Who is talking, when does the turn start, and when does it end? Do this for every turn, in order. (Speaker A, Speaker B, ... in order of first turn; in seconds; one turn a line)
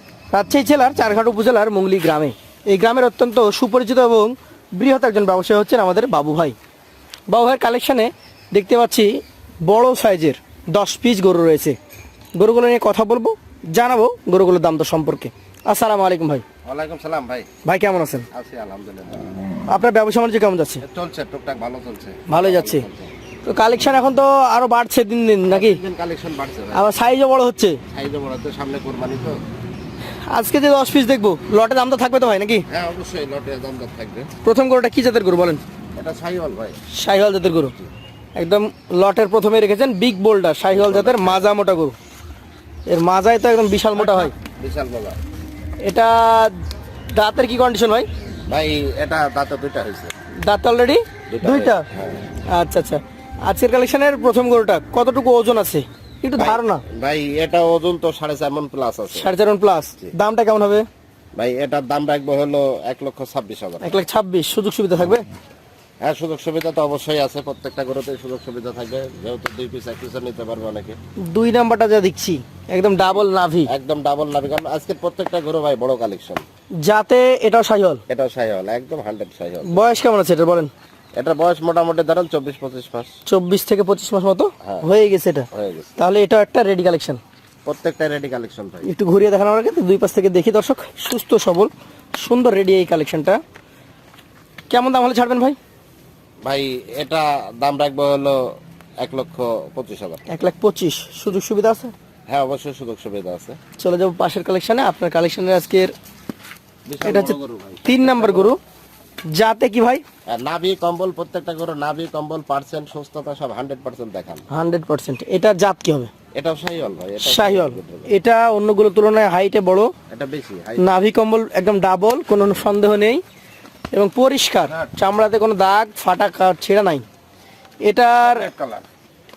Speaker A: 0.3-6.6
Speaker A: 7.3-11.8
Speaker A: 12.4-16.4
Speaker B: 16.6-17.5
Speaker A: 17.6-18.2
Speaker B: 18.3-19.4
Speaker A: 19.7-20.8
Speaker B: 20.8-23.1
Speaker A: 22.3-22.9
Speaker A: 23.4-25.8
Speaker B: 25.5-26.9
Speaker A: 26.7-27.8
Speaker B: 27.9-29.4
Speaker A: 30.3-32.6
Speaker B: 32.7-34.3
Speaker A: 34.4-35.6
Speaker B: 36.0-36.8
Speaker A: 36.9-37.8
Speaker A: 38.4-41.9
Speaker B: 40.7-41.5
Speaker A: 42.9-44.3
Speaker B: 44.0-45.2
Speaker A: 45.8-46.6
Speaker A: 47.1-48.1
Speaker B: 48.5-50.1
Speaker A: 50.4-51.9
Speaker B: 51.3-52.2
Speaker A: 52.5-56.8
Speaker B: 56.4-59.3
Speaker A: 59.1-60.9
Speaker B: 61.4-64.0
Speaker A: 63.8-65.2
Speaker B: 66.0-71.0
Speaker A: 71.3-73.7
Speaker B: 73.7-76.4
Speaker A: 76.8-78.0
Speaker B: 78.1-80.0
Speaker A: 79.7-80.7
Speaker B: 81.2-83.1
Speaker A: 83.3-87.2
Speaker B: 85.5-85.9
Speaker B: 87.7-88.9
Speaker A: 88.8-93.4
Speaker A: 94.7-95.6
Speaker B: 96.4-98.5
Speaker B: 99.0-100.3
Speaker A: 100.3-101.9
Speaker B: 102.3-103.6
Speaker A: 103.8-105.9
Speaker B: 106.9-108.5
Speaker A: 107.0-108.6
Speaker A: 109.3-110.0
Speaker B: 110.3-114.5
Speaker A: 114.5-116.1
Speaker B: 116.3-118.1
Speaker A: 117.2-119.9
Speaker B: 120.1-121.0
Speaker A: 120.8-123.2
Speaker A: 123.9-127.0
Speaker A: 127.8-128.5
Speaker B: 128.2-128.8